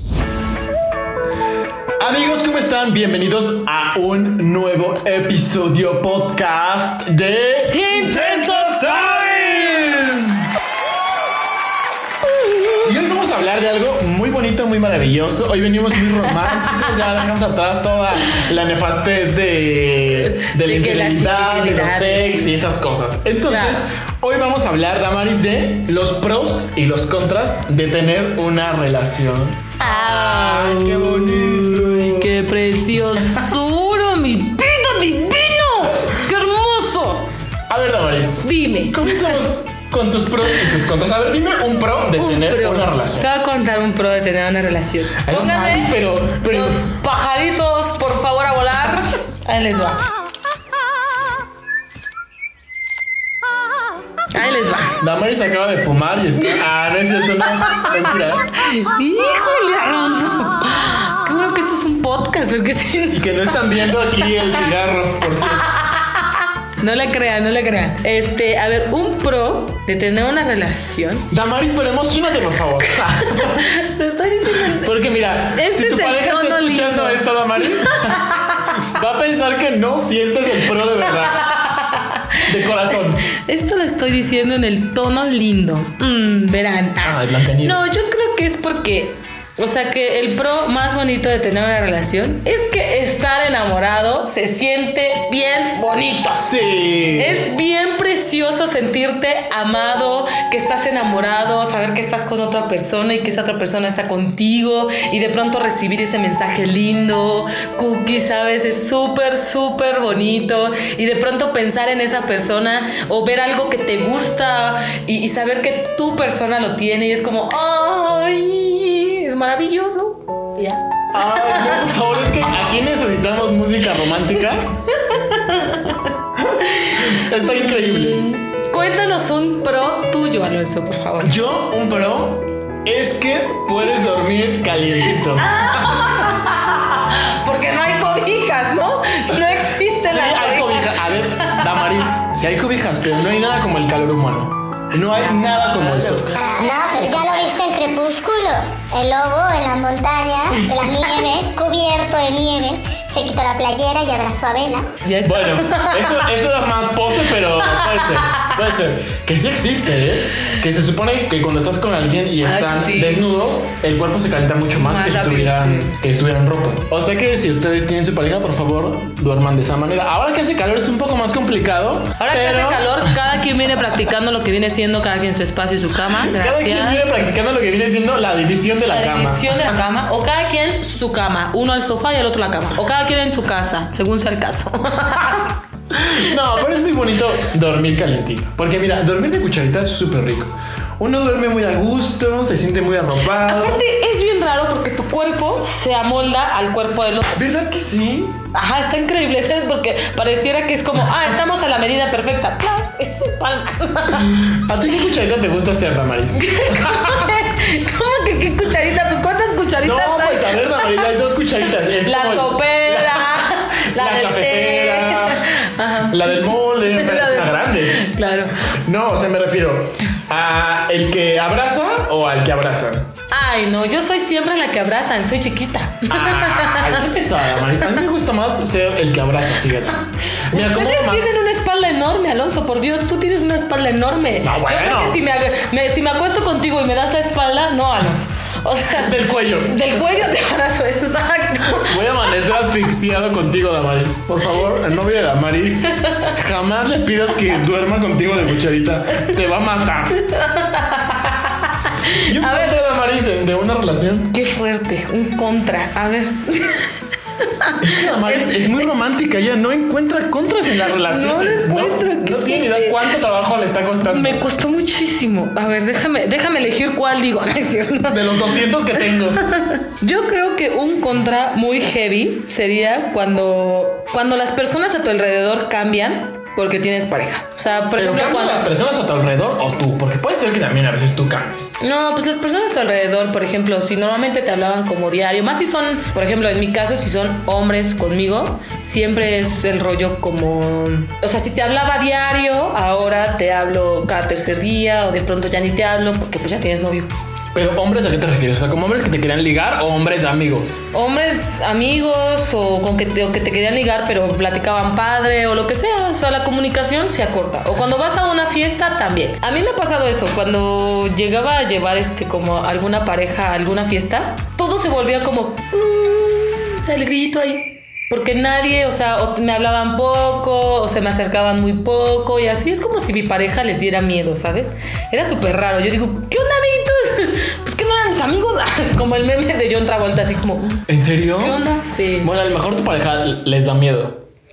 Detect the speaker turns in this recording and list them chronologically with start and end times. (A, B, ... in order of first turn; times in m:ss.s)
0:02.0-0:10.5 A
0:07.7-0:09.4 B
0:12.5-0:12.8 B
0:12.8-0:32.3 A
0:20.2-0:22.5 B
0:23.5-0:23.8 B
0:29.8-0:37.3 B
0:33.2-0:33.5 A
0:37.7-0:43.3 A
0:38.4-0:39.4 B
0:42.2-0:50.0 B
0:45.2-0:46.9 A
0:54.3-0:54.9 B
0:55.0-0:58.5 A
0:58.6-1:04.7 B
1:03.1-1:05.7 A
1:05.7-1:11.3 B
1:11.3-1:13.7 A
1:13.1-1:14.9 B
1:14.7-1:21.4 A
1:15.5-1:18.8 B
1:21.3-1:22.4 B
1:22.4-1:23.2 A
1:23.2-1:36.6 B
1:27.0-1:27.9 A
1:36.4-1:37.4 A
1:37.1-2:02.0 B
2:01.1-2:04.7 A
2:04.9-2:11.4 B
2:06.4-2:08.3 A
2:11.2-2:16.0 A
2:15.1-2:22.0 B
2:20.0-2:26.3 A
2:25.7-2:26.8 B
2:26.4-2:34.9 C
2:35.0-2:36.3 B
2:35.2-2:53.2 A
2:37.6-2:38.5 B
2:42.4-2:43.2 B
2:44.7-2:46.0 B
2:52.2-2:57.2 B
2:56.1-2:59.7 A
2:58.9-3:05.6 B
3:05.9-3:13.8 A
3:13.4-3:17.4 B
3:17.3-3:18.4 A
3:18.5-3:24.4 B
3:24.1-3:27.3 A
3:26.3-3:31.1 B
3:29.8-3:43.1 A
3:32.0-3:38.6 B
3:43.3-3:47.0 B
3:46.1-3:51.4 A
3:50.5-4:02.2 B
3:54.4-3:55.2 A
3:58.9-3:59.9 A
4:01.7-4:10.2 A
4:05.9-4:06.3 B
4:10.1-4:12.9 B
4:12.1-4:14.3 A
4:14.3-4:18.9 B
4:17.8-4:24.4 A
4:20.9-4:23.2 B
4:24.0-4:28.5 B
4:28.1-4:29.4 A
4:29.1-4:38.7 B
4:38.0-4:41.8 A
4:41.8-4:57.1 B
4:57.5-5:00.8 A
5:00.9-5:32.3 B
5:30.9-5:31.6 A
5:32.2-5:34.2 A